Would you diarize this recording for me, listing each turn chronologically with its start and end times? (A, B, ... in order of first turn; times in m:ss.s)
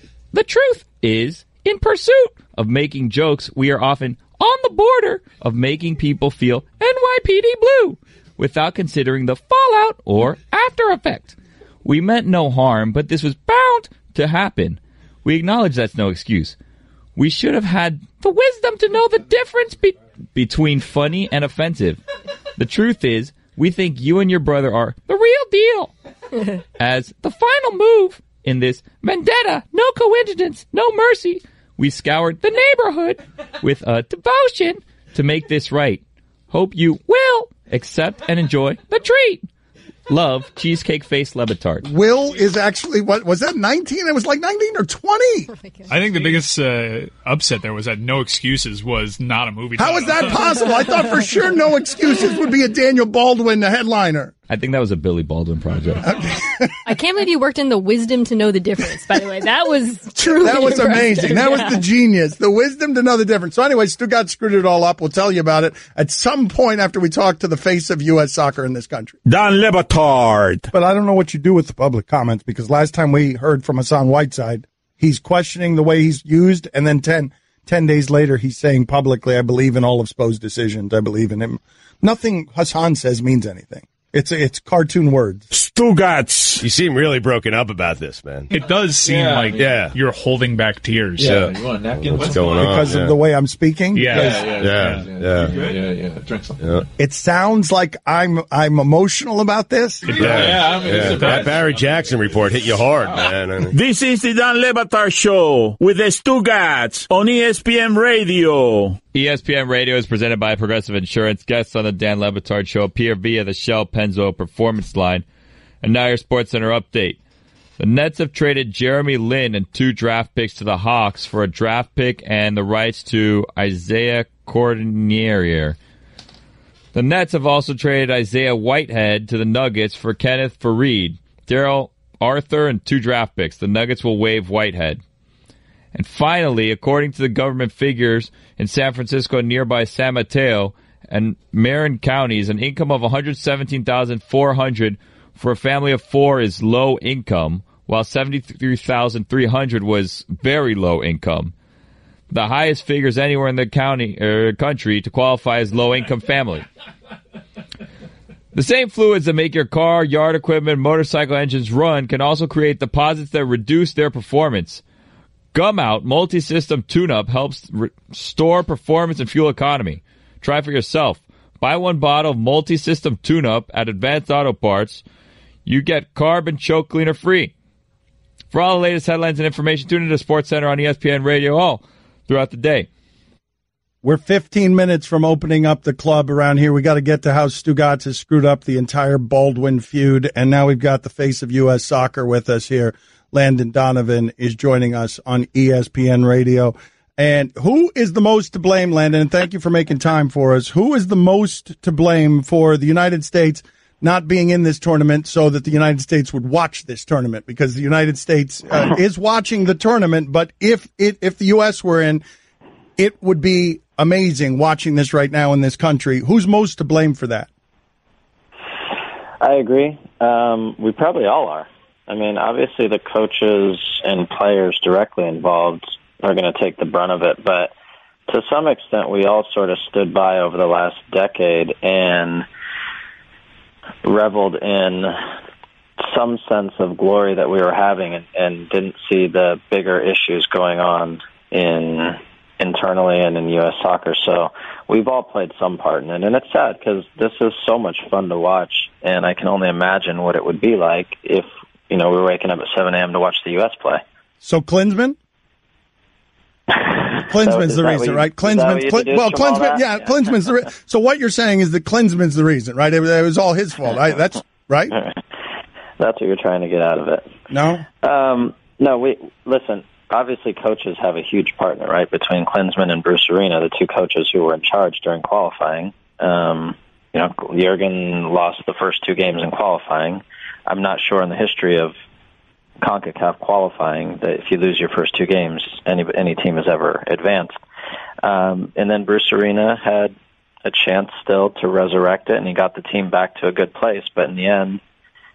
0:00.3-0:16.6 A
0:17.2-0:22.0 A
0:22.6-0:25.9 A
0:26.8-0:39.4 A
0:40.1-0:41.9 A
0:41.8-0:45.5 B
0:45.5-0:45.9 C
0:45.9-0:50.8 D
0:49.8-0:54.3 B
0:54.5-0:56.1 A
0:56.1-0:56.7 B
0:56.8-1:01.8 C
1:00.2-1:09.2 B
1:09.2-1:10.7 E
1:10.7-1:25.4 B
1:25.5-1:26.6 E
1:26.6-1:28.5 F
1:28.5-1:31.4 D
1:29.0-1:29.7 G
1:29.5-1:29.9 F
1:31.2-1:32.9 G
1:31.2-1:33.1 F
1:32.6-1:34.5 B
1:33.9-1:35.1 D
1:34.0-1:36.8 G
1:34.4-1:35.8 F
1:36.6-1:36.8 F
1:37.0-1:40.2 B
1:40.0-1:43.4 G
1:40.1-1:43.7 F
1:40.2-1:41.6 D
1:43.7-1:49.0 E
1:49.1-1:55.2 A
1:55.8-1:57.2 A
1:57.8-2:05.8 A
2:06.9-2:15.0 A
2:15.9-2:31.5 A
2:32.3-2:36.6 A
2:38.5-2:44.8 A
2:45.5-2:55.0 A
2:55.6-2:57.5 A
2:58.5-3:02.9 A
3:04.0-3:32.2 B
3:33.0-3:37.5 B
3:39.4-3:47.7 H
3:48.3-3:52.4 H
3:54.0-3:55.2 H
3:56.0-4:14.0 H
4:14.4-4:15.2 B
4:16.7-4:20.2 H
4:17.3-4:24.9 B
4:26.0-4:27.3 H
4:27.5-4:27.8 B
4:28.0-4:41.9 H
4:42.8-4:47.5 H
4:48.2-4:54.8 H